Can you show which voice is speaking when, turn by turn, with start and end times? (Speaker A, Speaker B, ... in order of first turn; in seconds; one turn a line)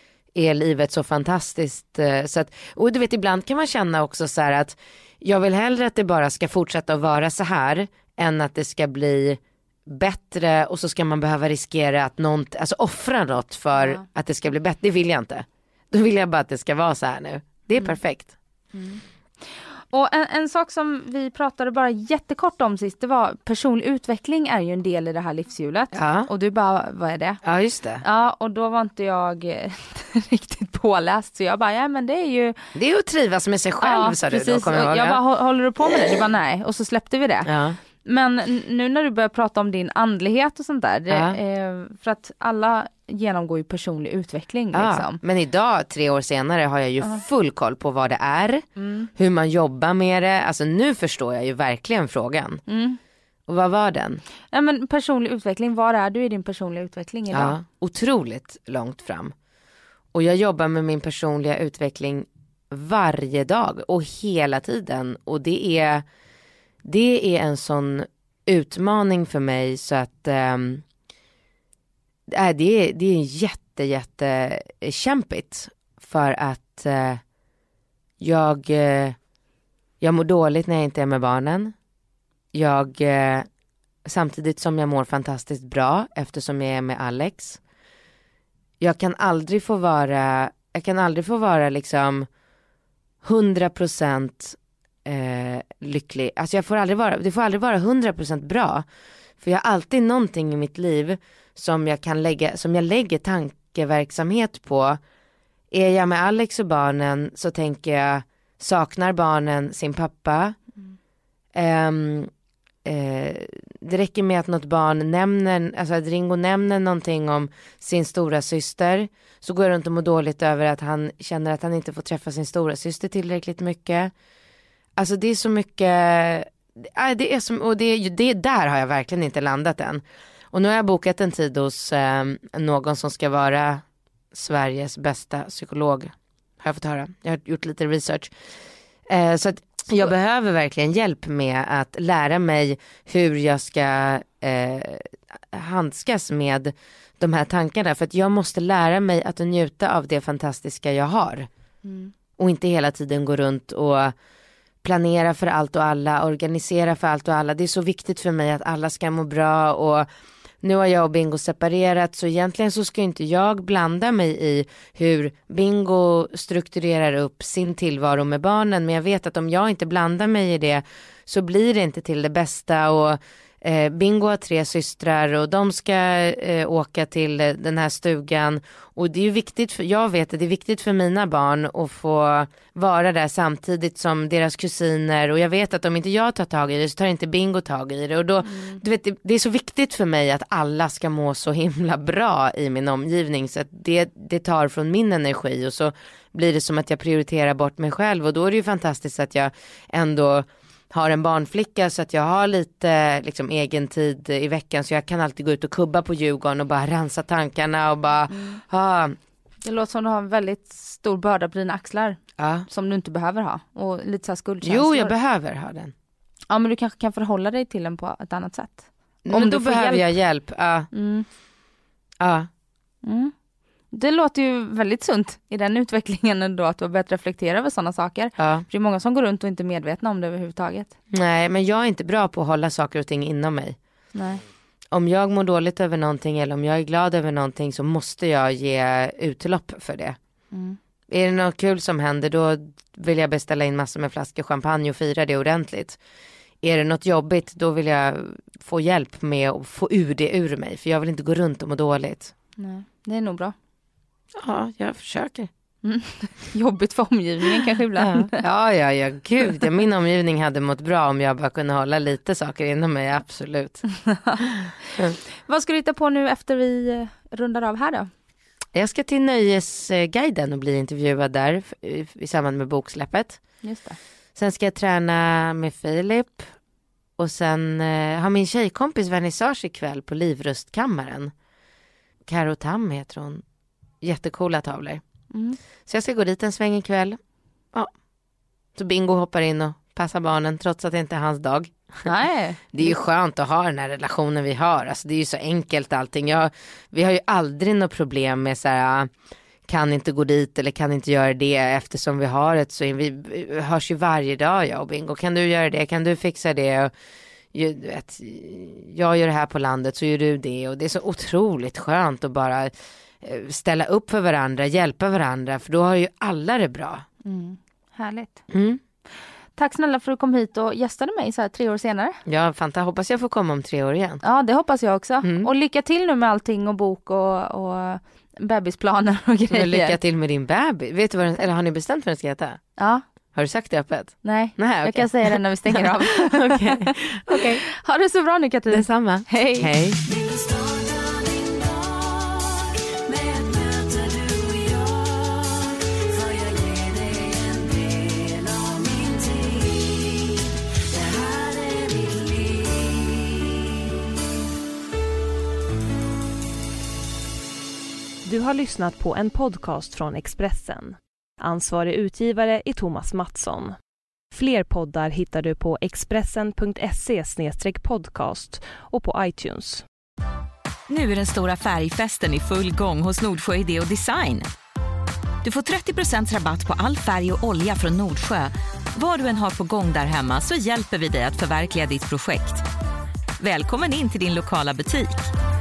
Speaker A: 0.3-18.3
Speaker B: 13.8-14.0
Speaker B: 18.7-19.0
Speaker B: 19.5-27.4
Speaker A: 25.9-26.3
Speaker A: 27.4-28.0
Speaker B: 28.0-32.6
Speaker A: 32.8-35.2
Speaker B: 33.8-37.5
Speaker A: 37.5-37.8
Speaker B: 38.0-45.2
Speaker A: 41.1-41.4
Speaker A: 44.7-48.6
Speaker B: 48.8-49.1
Speaker A: 49.1-52.6
Speaker B: 52.7-53.0
Speaker A: 53.5-54.2
Speaker B: 54.5-57.6
Speaker A: 57.3-59.3
Speaker A: 60.1-66.0
Speaker A: 66.8-70.8
Speaker A: 72.3-77.2
Speaker A: 78.2-79.2
Speaker A: 80.0-81.7
Speaker A: 82.5-83.5
Speaker A: 84.0-87.6
Speaker A: 88.8-92.3
Speaker A: 93.2-98.8
Speaker A: 99.4-105.0
Speaker A: 105.7-110.6
Speaker A: 111.5-112.3
Speaker A: 112.8-124.1
Speaker A: 125.0-138.3
Speaker A: 139.1-151.5
Speaker B: 151.8-152.1
Speaker A: 152.4-154.2
Speaker A: 154.8-160.1
Speaker A: 160.6-209.2
Speaker B: 188.4-188.8
Speaker B: 208.3-208.6
Speaker B: 209.6-215.1
Speaker A: 212.4-212.7
Speaker A: 214.6-215.9
Speaker B: 216.5-220.1
Speaker A: 219.2-220.9
Speaker B: 220.9-221.3
Speaker A: 222.2-222.5
Speaker B: 223.0-223.3
Speaker B: 223.9-230.9
Speaker A: 228.4-228.7
Speaker A: 231.1-233.8
Speaker B: 234.2-234.4
Speaker A: 234.9-240.2
Speaker B: 240.5-240.8
Speaker A: 241.1-246.0
Speaker A: 246.6-252.3
Speaker B: 252.6-253.5
Speaker A: 254.3-255.5
Speaker B: 255.8-258.4
Speaker A: 258.0-263.8
Speaker B: 264.1-264.4
Speaker A: 264.4-265.2
Speaker B: 265.5-268.1
Speaker A: 268.7-273.4
Speaker B: 273.6-274.0
Speaker A: 274.4-276.5
Speaker A: 277.2-281.3
Speaker A: 282.3-283.4
Speaker A: 284.0-285.0
Speaker B: 285.3-285.6
Speaker A: 285.9-287.2
Speaker A: 288.8-292.1
Speaker B: 292.1-292.7
Speaker A: 292.7-299.1
Speaker A: 299.7-306.9
Speaker A: 307.5-317.1
Speaker B: 317.2-318.4
Speaker A: 318.5-318.8
Speaker B: 319.6-322.2
Speaker A: 322.3-324.2
Speaker B: 324.2-330.0
Speaker A: 325.2-325.5
Speaker A: 329.5-332.6
Speaker B: 332.8-333.0
Speaker A: 333.4-337.6
Speaker B: 334.2-339.7
Speaker A: 338.7-340.0
Speaker C: 340.0-353.7
Speaker D: 358.2-363.7
Speaker D: 364.3-369.8
Speaker C: 370.9-374.5
Speaker C: 375.4-382.6
Speaker C: 383.4-385.3